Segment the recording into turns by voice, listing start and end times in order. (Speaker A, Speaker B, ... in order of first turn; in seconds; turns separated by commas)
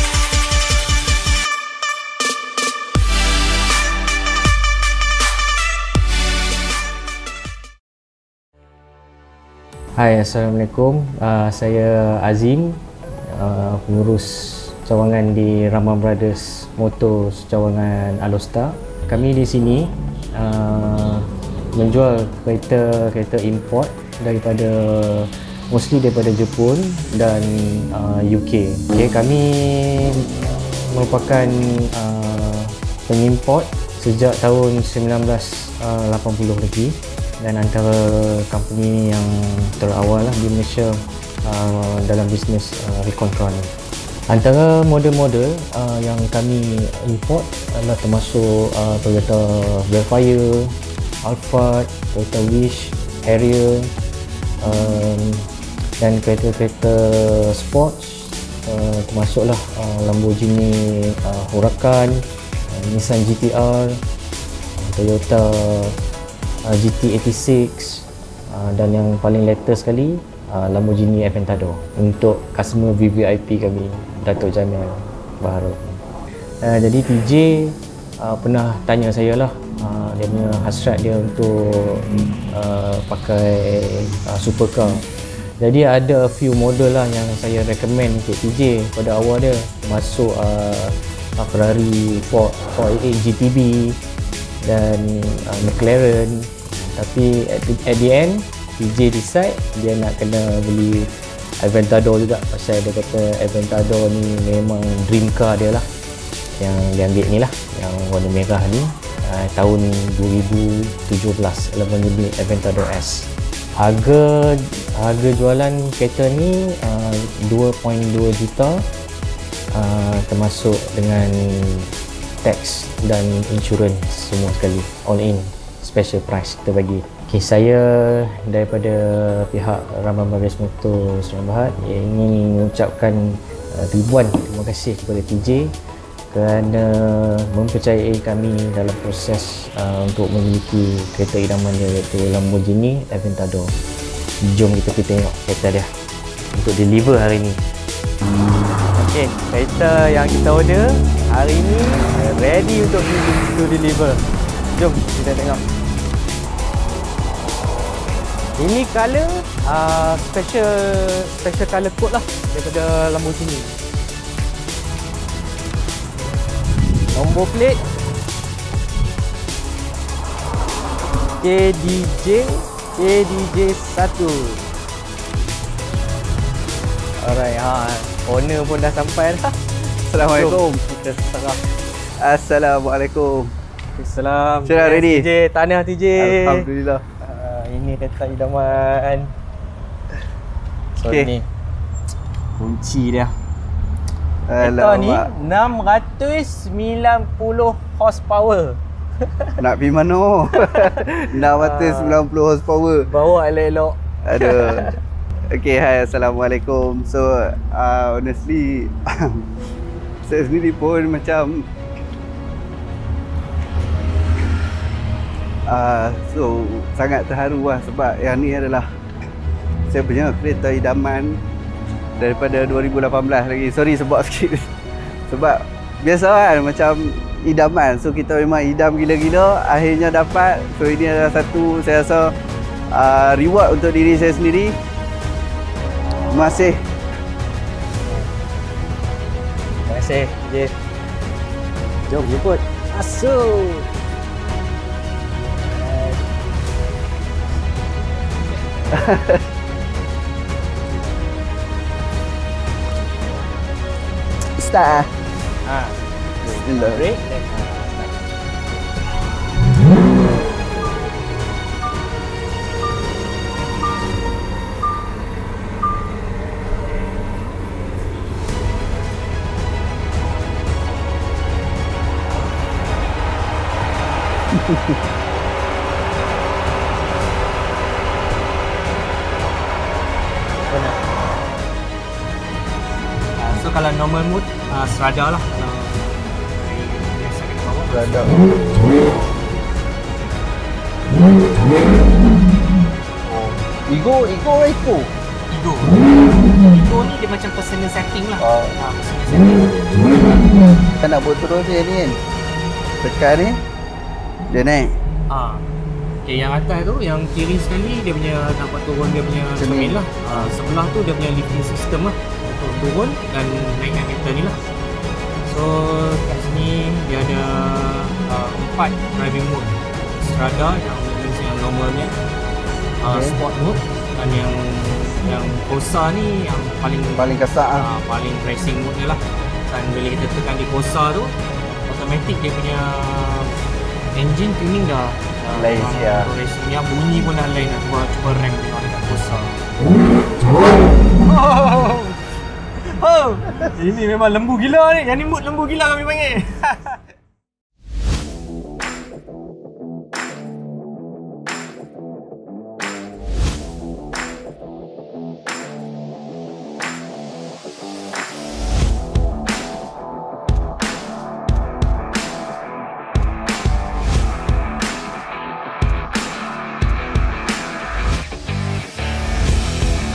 Speaker A: 10.0-30.2, Speaker A: 30.9-43.7, Speaker A: 44.3-53.9, Speaker A: 54.6-55.4, Speaker A: 56.0-64.0, Speaker A: 64.8-66.0, Speaker A: 66.7-76.0, Speaker A: 76.6-85.0, Speaker A: 85.6-94.0, Speaker A: 94.6-105.8, Speaker A: 106.6-118.8, Speaker A: 119.7-121.9, Speaker A: 122.4-135.7, Speaker A: 136.3-143.7, Speaker A: 144.4-145.9, Speaker A: 146.5-147.6, Speaker A: 148.9-154.2, Speaker A: 154.7-155.6, Speaker A: 158.6-163.8, Speaker A: 167.1-167.8, Speaker A: 171.4-174.6, Speaker A: 177.2-179.5, Speaker B: 180.1-180.8, Speaker A: 180.2-181.6, Speaker B: 182.2-183.5, Speaker A: 183.9-186.7, Speaker B: 184.6-185.3, Speaker B: 186.2-187.0, Speaker A: 187.2-189.3, Speaker A: 190.9-191.4, Speaker A: 192.6-193.3, Speaker B: 194.5-195.3, Speaker A: 194.6-198.8, Speaker B: 199.6-203.1, Speaker A: 200.6-202.2, Speaker A: 203.1-205.0, Speaker B: 204.3-204.8, Speaker B: 205.5-209.4, Speaker B: 210.2-211.6, Speaker B: 215.7-218.8, Speaker B: 219.9-221.4, Speaker B: 222.2-224.7, Speaker B: 225.3-232.3, Speaker B: 232.9-234.7, Speaker B: 236.3-236.8, Speaker A: 239.8-240.7, Speaker A: 242.1-243.9, Speaker A: 245.7-246.2, Speaker B: 248.9-249.4, Speaker B: 254.6-255.1, Speaker A: 255.7-258.3, Speaker B: 256.6-257.0, Speaker B: 274.5-275.0, Speaker A: 280.7-281.0, Speaker A: 283.4-288.3, Speaker B: 287.9-288.4, Speaker B: 293.2-295.1, Speaker A: 295.5-300.4, Speaker B: 298.4-298.7, Speaker B: 301.0-302.2, Speaker B: 303.0-303.6, Speaker B: 304.5-304.9, Speaker A: 305.3-305.6, Speaker A: 306.2-314.6, Speaker B: 309.6-310.0, Speaker A: 315.4-322.1, Speaker A: 323.0-331.3, Speaker B: 323.1-323.4, Speaker B: 327.2-327.9, Speaker A: 331.9-333.5, Speaker A: 334.1-339.6, Speaker B: 335.6-336.3, Speaker A: 340.4-342.2, Speaker A: 342.9-347.0